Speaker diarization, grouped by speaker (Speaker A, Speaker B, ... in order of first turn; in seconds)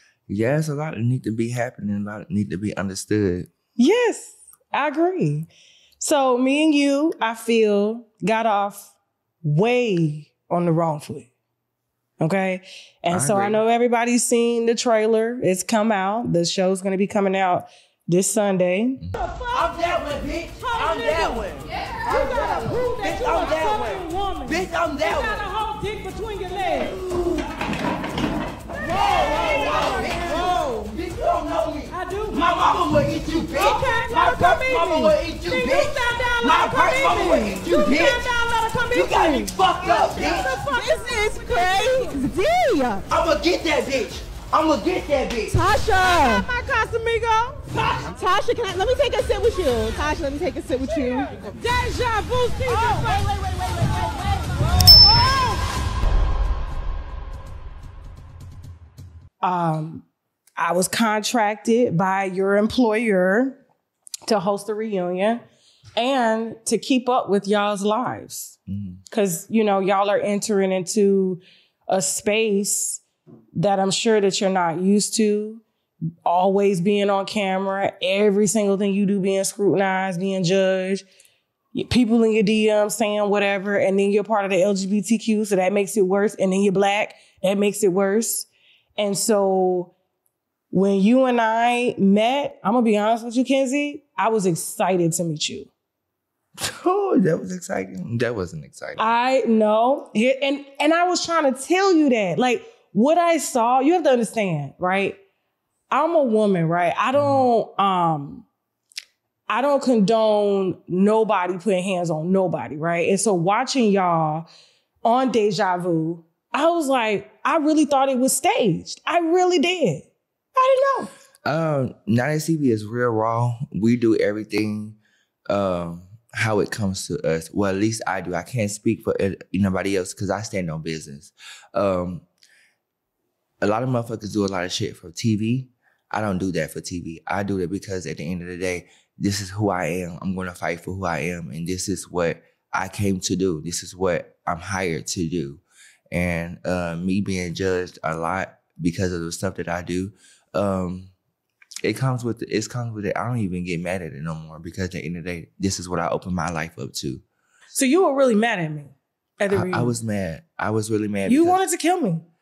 Speaker A: 0.3-3.5, 13.1-13.6, 68.7-69.0, 96.6-99.1, 107.1-107.4, 121.5-132.3, 133.6-151.1, 151.8-157.2, 159.5-161.6
Speaker B: 3.8-11.3, 12.2-19.6, 20.6-27.0, 28.8-30.4, 31.9-32.7, 33.5-42.2, 46.3-47.6, 51.4-55.6, 59.4-60.1, 60.6-63.6, 64.3-65.4, 66.0-68.6, 69.1-73.0, 73.5-75.6, 76.2-81.0, 81.7-89.9, 90.7-95.7, 99.0-105.2, 105.9-108.5, 109.5-114.5, 115.0-121.1, 157.7-159.9, 161.3-162.2
Speaker C: 19.5-25.5, 27.0-27.5, 29.2-38.2, 38.9-40.6, 43.1-45.5
Speaker D: 40.5-43.1, 45.5-46.5, 47.9-51.4